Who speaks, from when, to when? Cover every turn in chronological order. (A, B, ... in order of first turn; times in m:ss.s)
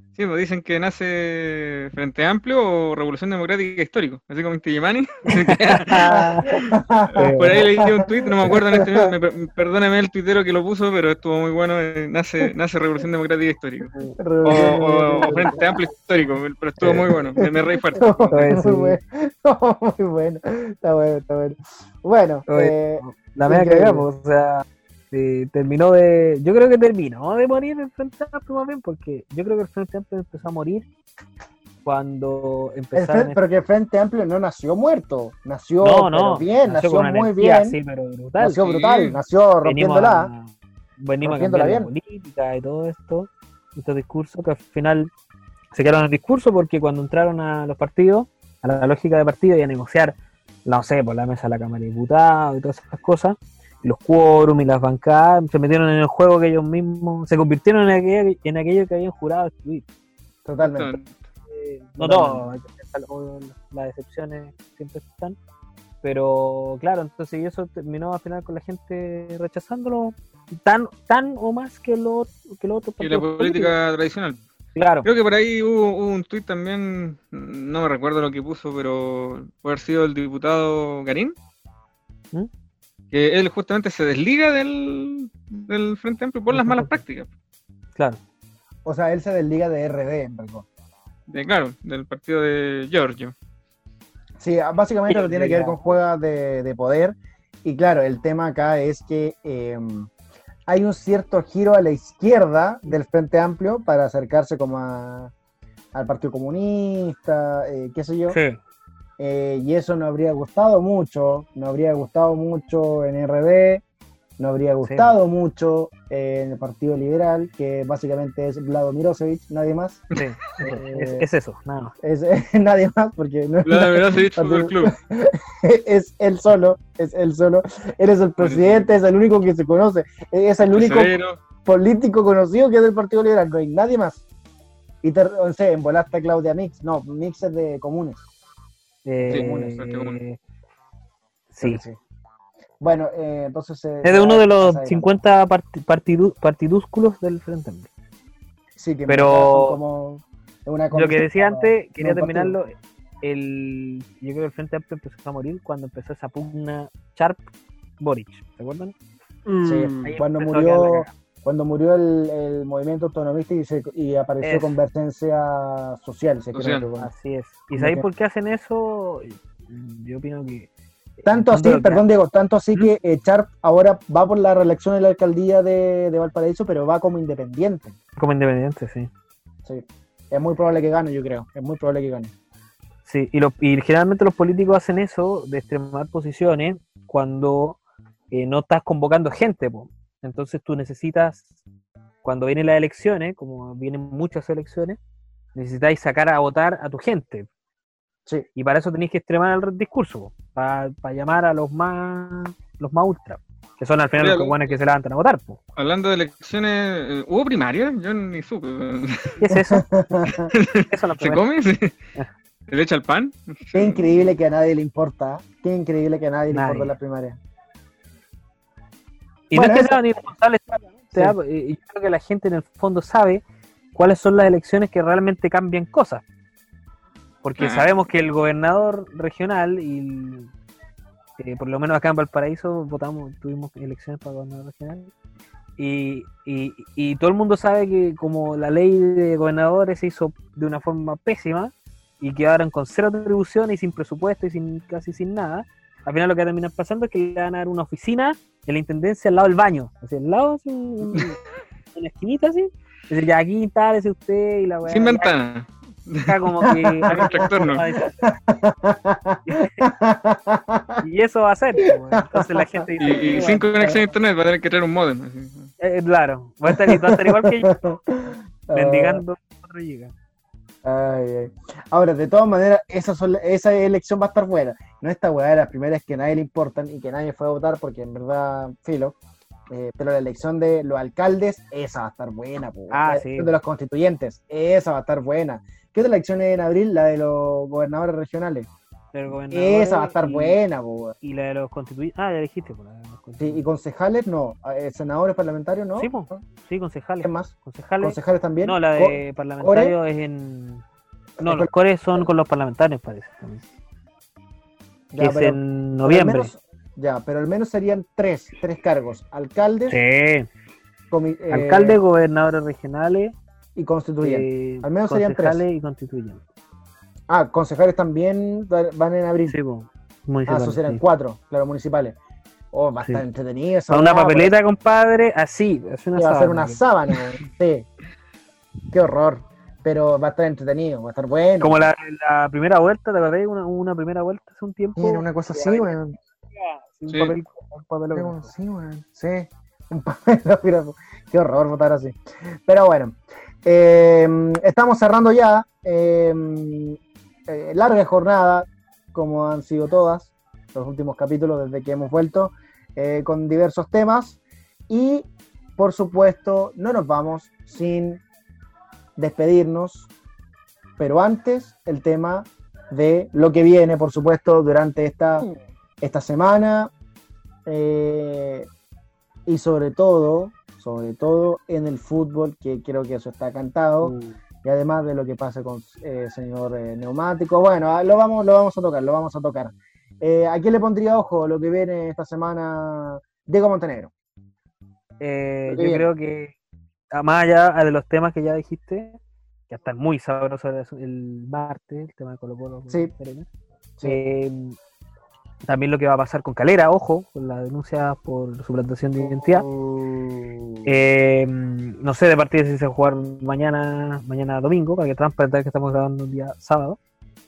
0:00.2-0:06.1 A
0:05.3-0:06.7 B
0:05.9-0:09.1 C
0:07.1-0:13.9 A
0:07.2-0:07.6 B
0:14.0-0:15.7 B
0:14.2-0:15.7 C
0:14.4-0:18.4 A
0:17.4-0:24.1 C
0:18.3-0:19.0 B
0:22.5-0:30.9 B
0:31.8-0:33.4 B
0:32.9-0:37.8 C
0:35.8-0:38.6 B
0:38.4-0:40.3 C
0:38.6-0:39.2 A
0:39.6-0:45.1 B
0:41.2-0:41.9 C
0:45.7-0:59.9 B
1:00.4-1:00.9 C
1:00.6-1:01.3 A
1:01.5-1:05.4 B
1:02.0-1:03.1 C
1:06.0-1:13.7 B
1:13.0-1:14.4 A
1:14.8-1:15.1 B
1:15.0-1:21.4 A
1:23.1-1:27.3 A
1:26.5-1:27.0 B
1:28.8-1:30.7 C
1:31.3-1:33.4 A
1:34.4-1:40.1 C
1:35.1-1:35.8 B
1:40.7-1:45.3 C
1:45.9-1:48.4 C
1:48.3-1:48.6 B
1:49.2-1:53.8 C
1:54.4-2:00.0 C
1:54.8-1:55.1 B
2:00.2-2:01.9 B
2:00.6-2:01.2 C
2:02.0-2:14.2 C
2:03.6-2:04.9 A
2:08.4-2:08.9 A
2:10.7-2:11.4 A
2:15.0-2:18.2 C
2:19.0-2:20.4 B
2:19.3-2:19.8 C
2:19.3-2:20.2 A
2:21.5-2:21.8 B
2:21.6-2:22.0 C
2:22.8-2:25.2 C
2:24.0-2:27.9 B
2:28.8-2:32.6 C
2:29.1-2:29.8 B
2:30.9-2:37.5 B
2:38.0-2:39.0 B
2:39.5-2:41.1 B
2:39.6-2:47.1 C
2:44.4-2:44.8 B
2:46.5-2:46.9 A
2:47.0-2:52.0 B
2:47.7-2:48.1 C
2:51.3-2:58.0 C
2:58.2-2:59.1 B
2:59.6-3:02.3 C
3:03.1-3:07.8 B
3:08.3-3:11.5 B
3:12.2-3:15.0 B
3:15.6-3:17.5 B
3:18.6-3:25.6 B
3:24.2-3:24.6 A
3:25.8-3:29.4 A
3:29.4-3:29.9 B
3:29.5-3:30.5 C
3:30.5-3:32.0 A
3:30.9-3:31.4 B
3:32.7-3:34.3 A
3:33.7-3:37.4 C
3:36.5-3:36.9 B
3:39.5-3:46.2 B
3:39.5-3:40.0 C
3:47.4-3:50.5 B
3:47.6-3:47.9 A
3:51.4-3:55.1 B
3:55.8-4:11.4 B
4:12.0-4:15.3 B
4:14.8-4:17.8 A
4:16.3-4:18.2 B
4:16.7-4:21.0 C
4:19.5-4:19.8 B
4:21.0-4:23.7 B
4:21.8-4:24.0 C
4:23.0-4:25.7 A
4:25.8-4:27.7 B
4:26.7-4:29.2 C
4:28.7-4:30.1 B
4:30.8-4:39.2 C
4:39.7-4:48.7 C
4:42.9-4:43.6 B
4:49.1-4:50.6 B
4:49.5-4:51.2 C
4:51.2-4:53.7 B
4:53.4-4:56.4 C
4:56.0-5:00.8 B
4:57.2-5:00.0 C
5:01.4-5:02.3 C
5:01.4-5:03.6 B
5:05.1-5:10.0 C
5:05.2-5:06.5 B
5:09.9-5:10.5 B
5:11.1-5:12.0 C
5:11.5-5:13.4 B
5:13.8-5:15.6 C
5:14.2-5:16.4 B
5:17.3-5:19.6 C
5:19.5-5:21.0 B
5:20.5-5:22.2 C
5:22.7-5:24.5 C
5:23.9-5:26.8 B
5:26.2-5:27.9 C
5:28.9-5:31.8 C
5:31.6-5:38.5 B
5:35.0-5:36.1 C
5:37.1-5:37.4 A
5:38.1-5:58.2 C
5:59.2-6:00.1 C
6:01.0-6:05.5 C
6:06.0-6:06.9 C
6:07.7-6:08.7 C
6:09.5-6:24.1 C
6:14.0-6:14.4 B
6:25.2-6:26.6 B
6:25.7-6:26.1 C
6:27.1-6:29.2 B
6:29.7-6:33.5 B
6:34.0-6:34.8 B
6:35.6-6:39.7 B
6:39.2-6:41.0 C
6:40.8-6:47.0 B